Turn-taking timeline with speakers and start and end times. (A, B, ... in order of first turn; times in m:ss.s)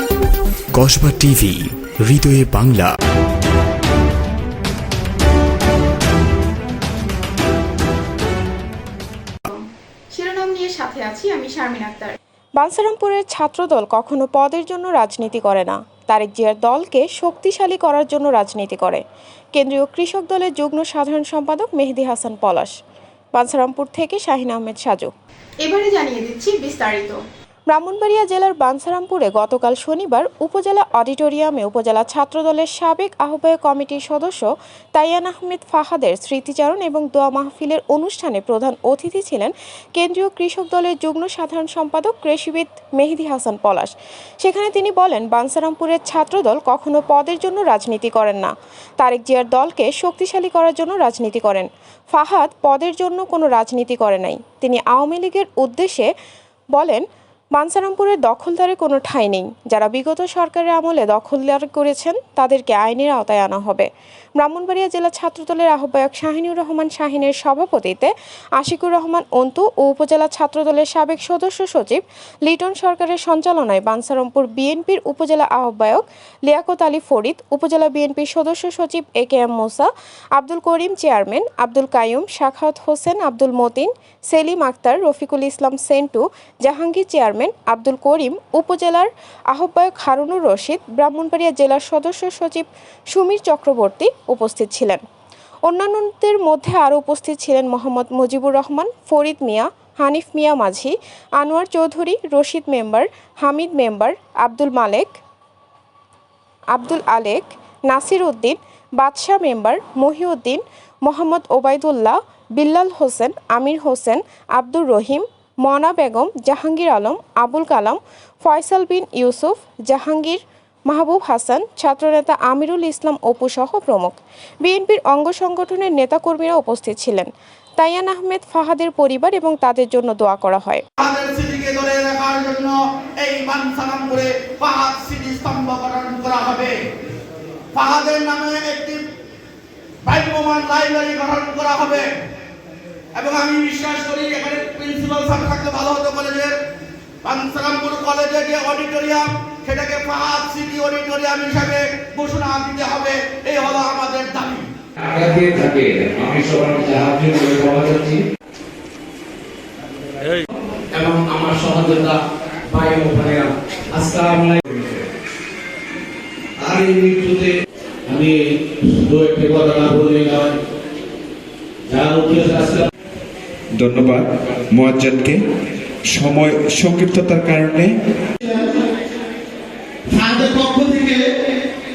0:00.7-0:02.9 A
0:10.1-0:12.1 B
0:12.6-0:19.0 C
0:19.5-0:22.7 C
0:23.3-0:25.1 C
0:25.6-0:27.2 B
0:26.0-0:27.1 C
0:27.7-0:56.1 C
0:56.7-1:35.0 C
1:35.6-1:45.2 C
1:46.7-2:10.8 C
2:11.0-2:16.7 D
2:17.7-2:19.0 D
2:20.0-2:22.1 D
2:23.1-2:26.5 D
2:27.2-2:34.7 D
2:35.0-2:38.2 E
2:40.9-2:42.2 E
2:42.7-2:44.6 E
2:46.6-2:47.5 E
2:48.1-2:50.5 E
2:51.9-2:52.9 E
2:53.8-2:55.4 F
2:56.1-2:57.9 F
3:00.2-3:00.7 E
3:00.4-3:01.1 D